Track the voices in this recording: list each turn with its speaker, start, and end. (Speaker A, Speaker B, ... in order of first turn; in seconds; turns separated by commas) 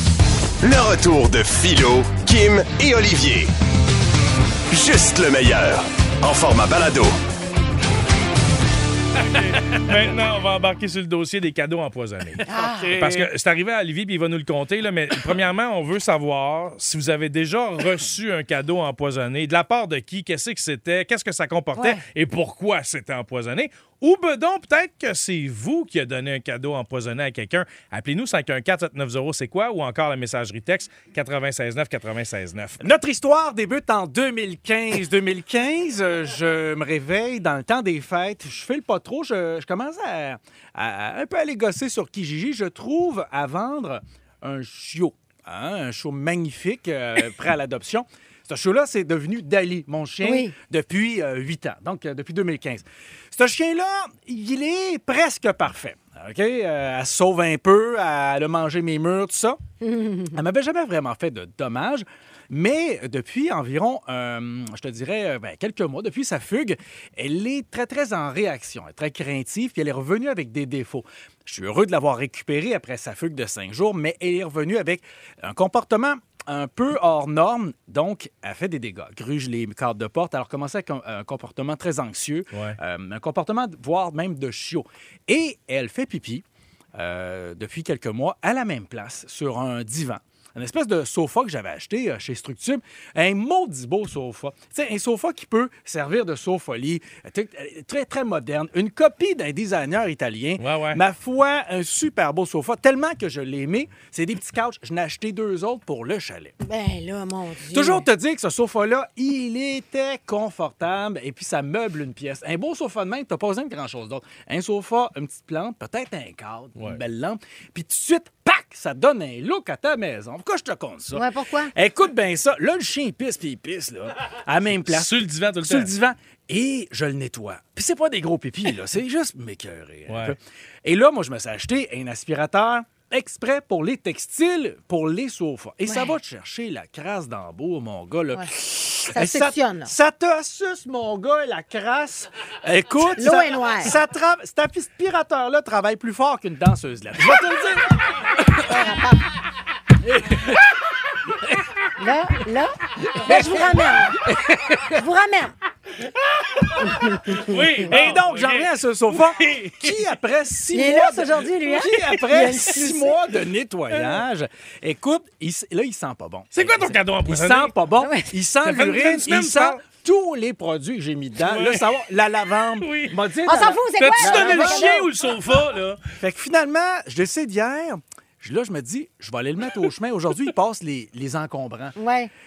Speaker A: 0.6-3.5, Speaker A: 4.7-7.2, Speaker B: 9.2-32.8, Speaker C: 12.4-13.3, Speaker D: 12.5-13.0, Speaker D: 21.7-22.0, Speaker C: 32.8-59.6, Speaker D: 50.2-50.5, Speaker D: 59.8-60.4, Speaker C: 60.3-106.5, Speaker B: 100.6-101.0, Speaker D: 106.6-108.1, Speaker C: 107.7-148.8, Speaker D: 121.1-121.7, Speaker B: 124.8-125.9, Speaker B: 130.1-130.4, Speaker D: 135.9-136.1, Speaker D: 139.1-139.9, Speaker D: 143.0-143.9, Speaker D: 148.7-149.2, Speaker C: 150.0-150.8, Speaker D: 152.0-154.2, Speaker C: 153.1-155.0, Speaker D: 154.9-155.6, Speaker D: 156.8-157.4, Speaker B: 157.1-159.9, Speaker C: 157.8-175.1, Speaker D: 160.7-163.2, Speaker B: 166.5-167.7, Speaker D: 168.0-168.3, Speaker B: 168.7-169.8, Speaker B: 171.4-171.8, Speaker B: 172.8-173.2, Speaker D: 173.4-175.1, Speaker B: 174.0-176.0, Speaker C: 176.2-181.9, Speaker D: 182.0-182.3